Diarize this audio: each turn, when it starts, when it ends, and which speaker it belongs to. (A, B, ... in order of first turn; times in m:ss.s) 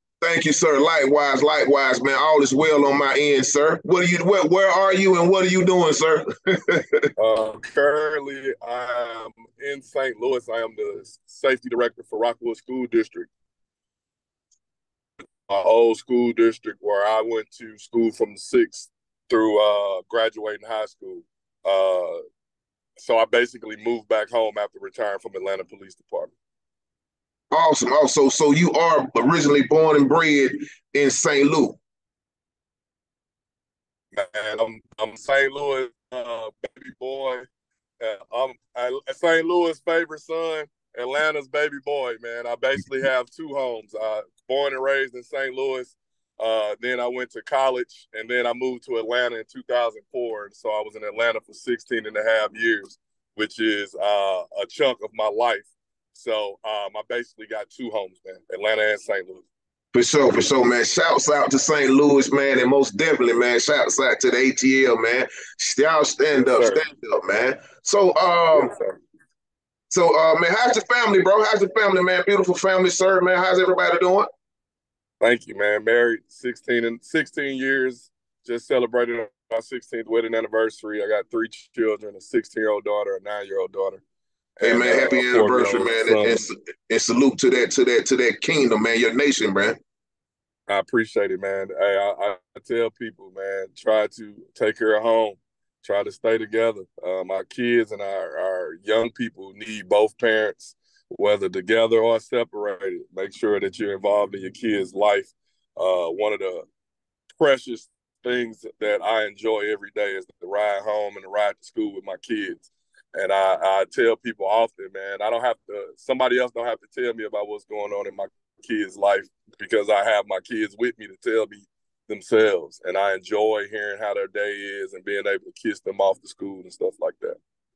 0:00.2-0:07.1 A
0:07.2-0:13.3 B
0:15.5-0:22.2 B
0:23.0-0:26.3 B
0:27.5-0:31.8 A
0:34.1-0:37.5 B
0:38.0-0:59.4 B
0:59.9-1:08.7 A
1:06.4-1:06.8 B
1:08.5-1:09.0 B
1:09.9-1:14.3 A
1:15.2-1:24.0 B
1:24.6-1:26.5 B
1:24.6-1:29.8 A
1:30.7-1:46.6 B
1:47.4-2:07.4 B